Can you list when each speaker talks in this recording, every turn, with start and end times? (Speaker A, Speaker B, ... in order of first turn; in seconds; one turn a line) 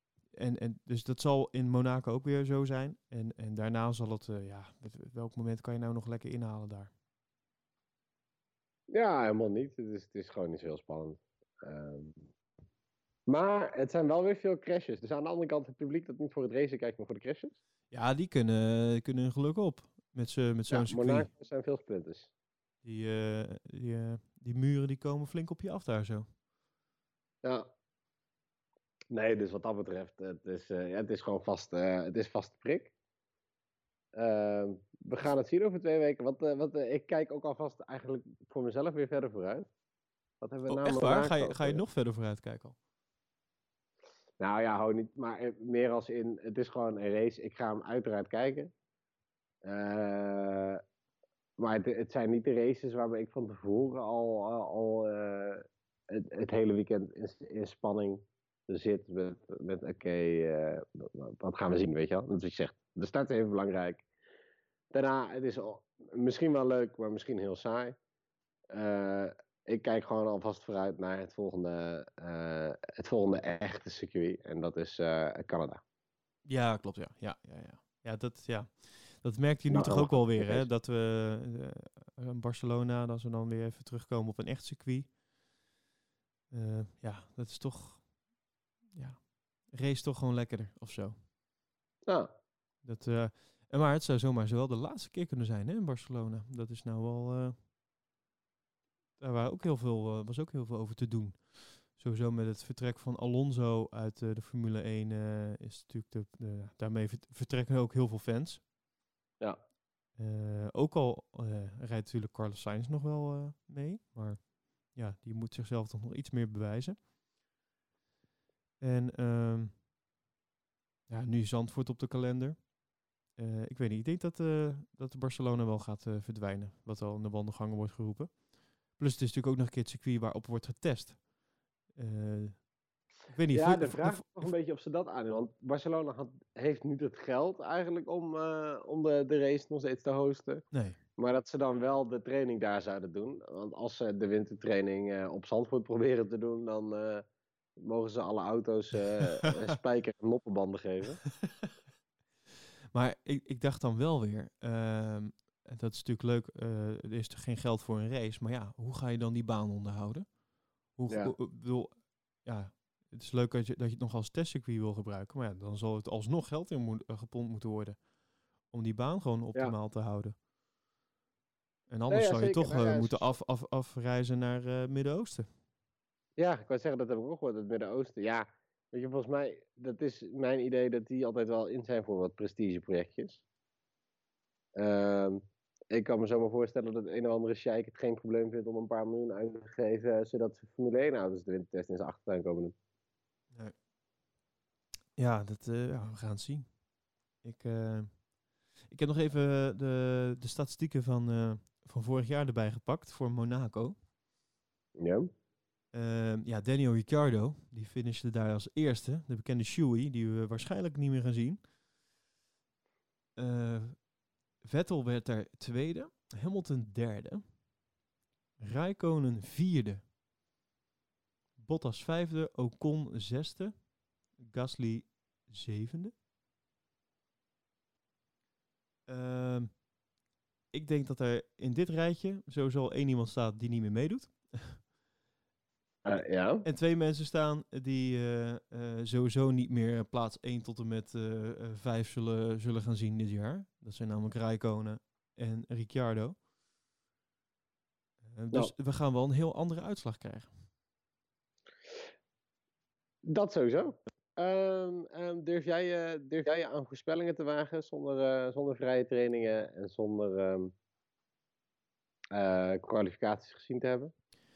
Speaker A: 0.3-6.9
Speaker B: 8.9-12.3
Speaker B: 13.3-17.6
Speaker A: 17.9-21.3
Speaker B: 20.7-22.3
Speaker A: 22.8-26.3
Speaker B: 27.4-27.7
Speaker B: 29.1-32.9
Speaker B: 34.1-39.7
Speaker B: 40.4-41.8
Speaker A: 40.7-42.8
Speaker B: 44.4-48.7
Speaker B: 49.6-50.8
Speaker B: 51.6-64.1
Speaker B: 64.9-68.0
Speaker B: 68.7-75.8
Speaker A: 76.5-85.1
Speaker B: 79.7-80.7
Speaker A: 86.5-88.1
Speaker A: 88.9-91.2
Speaker A: 92.8-97.5
Speaker A: 99.2-108.7
Speaker A: 110.2-117.0
Speaker A: 118.8-119.8
Speaker A: 121.1-122.7
Speaker A: 123.3-131.2
Speaker A: 131.9-132.7
Speaker A: 133.3-134.5
Speaker B: 133.5-140.7
Speaker A: 140.7-141.0
Speaker B: 141.2-147.2
Speaker B: 147.8-151.2
Speaker A: 152.9-160.3
Speaker A: 160.9-168.0
Speaker B: 161.1-161.3
Speaker A: 168.7-170.4
Speaker A: 171.9-175.5
Speaker B: 172.1-173.3
Speaker B: 176.4-183.4
Speaker B: 184.8-192.8
Speaker A: 195.2-196.8
Speaker A: 197.4-198.3
Speaker A: 198.8-204.0
Speaker B: 205.0-205.3
Speaker A: 205.9-211.7
Speaker A: 213.4-214.1
Speaker A: 214.6-217.4
Speaker A: 218.6-220.1
Speaker A: 221.6-226.2
Speaker A: 229.1-229.8
Speaker A: 230.7-234.8
Speaker B: 236.1-236.7
Speaker A: 236.6-246.4
Speaker A: 248.2-250.5
Speaker B: 253.2-260.7
Speaker B: 262.3-264.1